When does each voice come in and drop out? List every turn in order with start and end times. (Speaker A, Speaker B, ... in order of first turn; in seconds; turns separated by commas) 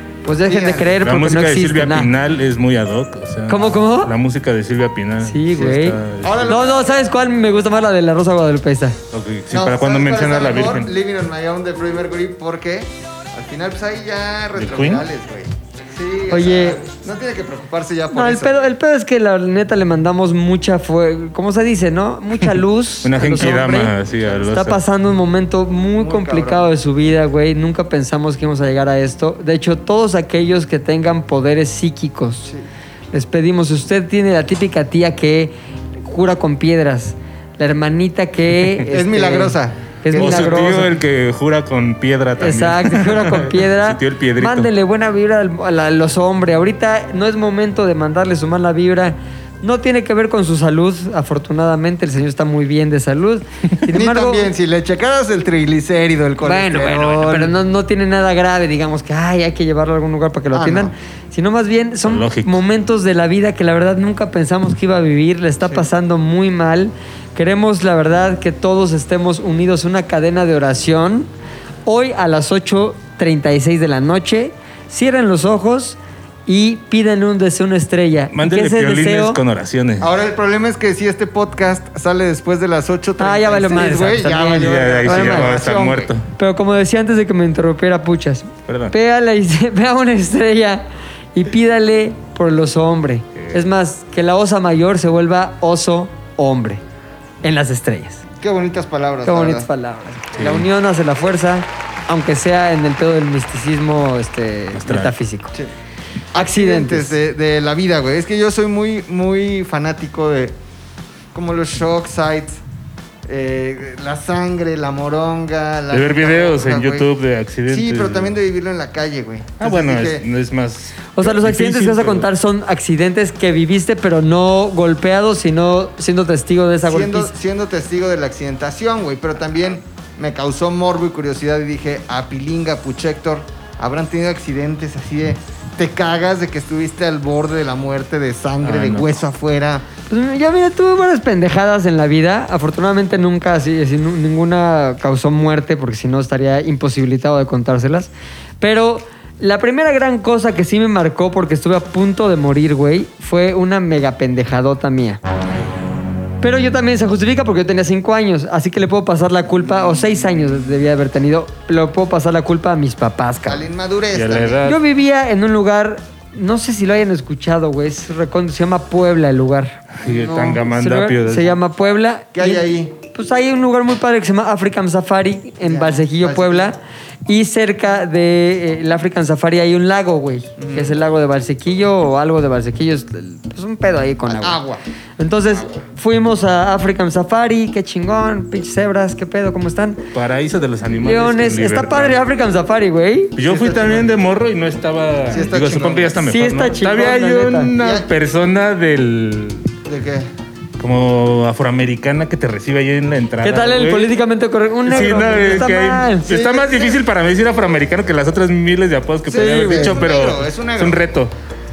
Speaker A: 0.2-2.1, Speaker B: 0.4-1.0, Speaker C: 1.0-6.5, Speaker A: 3.5-4.1, Speaker A: 5.2-9.0, Speaker B: 6.2-7.1, Speaker C: 9.1-10.9, Speaker B: 9.5-18.7, Speaker C: 14.6-15.1, Speaker A: 16.3-16.8, Speaker A: 18.1-23.9, Speaker C: 23.0-24.8, Speaker A: 24.5-32.5, Speaker B: 26.0-26.7, Speaker A: 33.1-40.9, Speaker B: 38.9-40.9, Speaker C: 40.1-44.7, Speaker A: 42.4-54.5, Speaker B: 53.9-57.6, Speaker A: 56.4-71.3, Speaker B: 60.5-60.9, Speaker C: 62.1-62.6, Speaker A: 71.9-79.4, Speaker C: 78.3-80.1, Speaker B: 80.0-86.1, Speaker A: 83.2-85.7, Speaker C: 84.4-86.2, Speaker A: 86.3-90.8, Speaker C: 88.7-88.9, Speaker A: 91.3-96.8, Speaker C: 93.4-93.6, Speaker A: 97.4-98.2, Speaker B: 98.4-99.7, Speaker A: 99.2-105.5, Speaker C: 100.4-100.7, Speaker C: 104.7-105.1, Speaker B: 106.3-110.6, Speaker A: 106.3-107.2, Speaker B: 111.3-112.6, Speaker B: 113.2-117.1, Speaker C: 115.9-118.3, Speaker B: 117.7-120.2, Speaker C: 119.6-122.3, Speaker A: 121.1-127.3, Speaker B: 126.8-139.9, Speaker C: 138.6-139.2, Speaker A: 140.1-155.2, Speaker A: 156.4-163.6, Speaker B: 163.4-164.6, Speaker C: 164.1-164.8, Speaker A: 164.6-184.6, Speaker C: 169.9-171.6, Speaker B: 172.3-172.9, Speaker B: 175.6-176.7, Speaker B: 180.6-181.0, Speaker B: 184.3-184.8, Speaker A: 185.2-190.1, Speaker C: 190.1-192.2, Speaker A: 190.9-193.4, Speaker C: 193.4-199.7, Speaker B: 193.4-194.2, Speaker B: 195.3-196.2, Speaker A: 196.2-197.7, Speaker B: 197.7-198.1, Speaker B: 199.8-200.3, Speaker C: 200.8-204.2, Speaker A: 203.4-206.2, Speaker C: 204.9-211.3, Speaker B: 206.2-207.0, Speaker A: 209.3-209.9, Speaker B: 209.3-211.1